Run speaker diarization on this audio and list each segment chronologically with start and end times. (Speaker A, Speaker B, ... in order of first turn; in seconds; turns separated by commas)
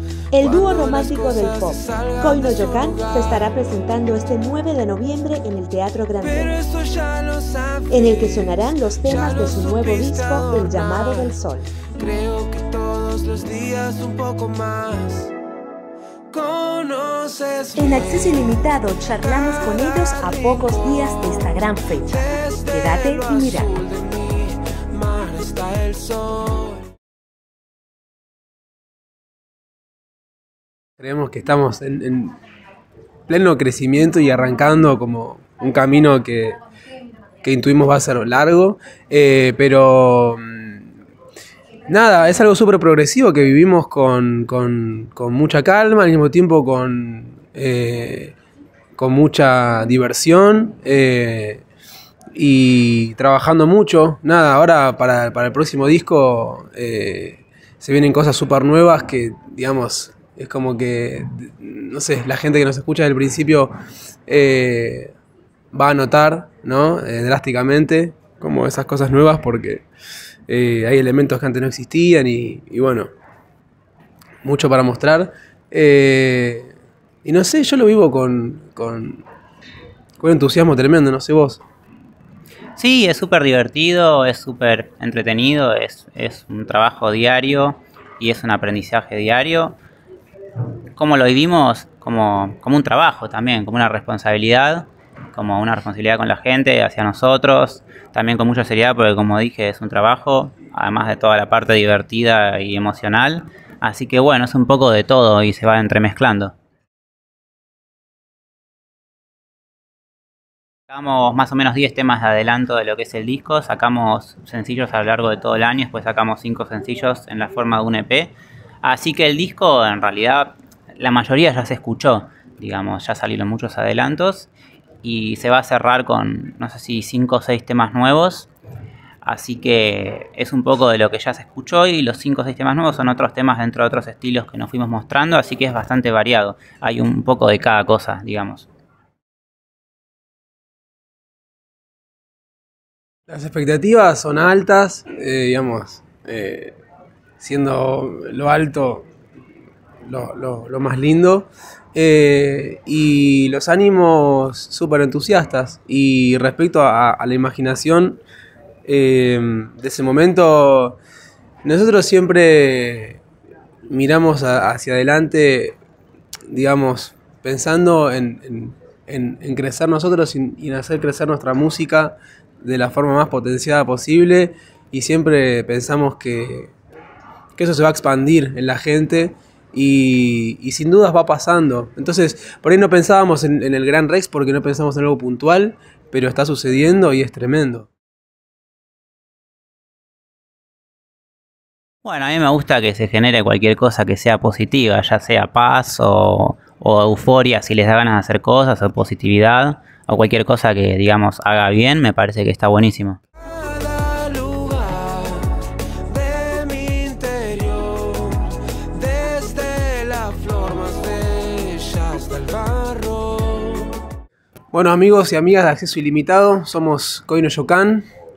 Speaker A: 0.3-6.5, Speaker B: 0.4-3.4, Speaker B: 6.2-11.3, Speaker A: 7.9-11.7, Speaker B: 11.9-15.3, Speaker B: 16.3-26.8, Speaker A: 17.8-23.8, Speaker C: 31.0-32.4, Speaker C: 33.3-36.6, Speaker C: 37.4-40.9, Speaker C: 41.9-48.4, Speaker C: 49.0-51.6, Speaker C: 52.4-63.7, Speaker C: 64.3-65.1, Speaker C: 65.7-69.8, Speaker C: 70.5-73.1, Speaker C: 74.4-76.7, Speaker C: 77.2-79.2, Speaker C: 80.2-81.6, Speaker D: 82.8-89.8, Speaker D: 91.0-106.5, Speaker D: 110.9-124.5, Speaker D: 125.0-128.5, Speaker D: 129.2-138.7, Speaker C: 143.3-146.8, Speaker C: 147.4-149.1, Speaker C: 150.1-158.2, Speaker C: 158.9-161.0, Speaker C: 161.7-163.2, Speaker C: 163.9-165.8, Speaker C: 166.5-176.7, Speaker C: 177.6-187.9, Speaker D: 192.0-203.2, Speaker B: 203.6-205.6, Speaker B: 206.1-213.9, Speaker C: 214.7-218.1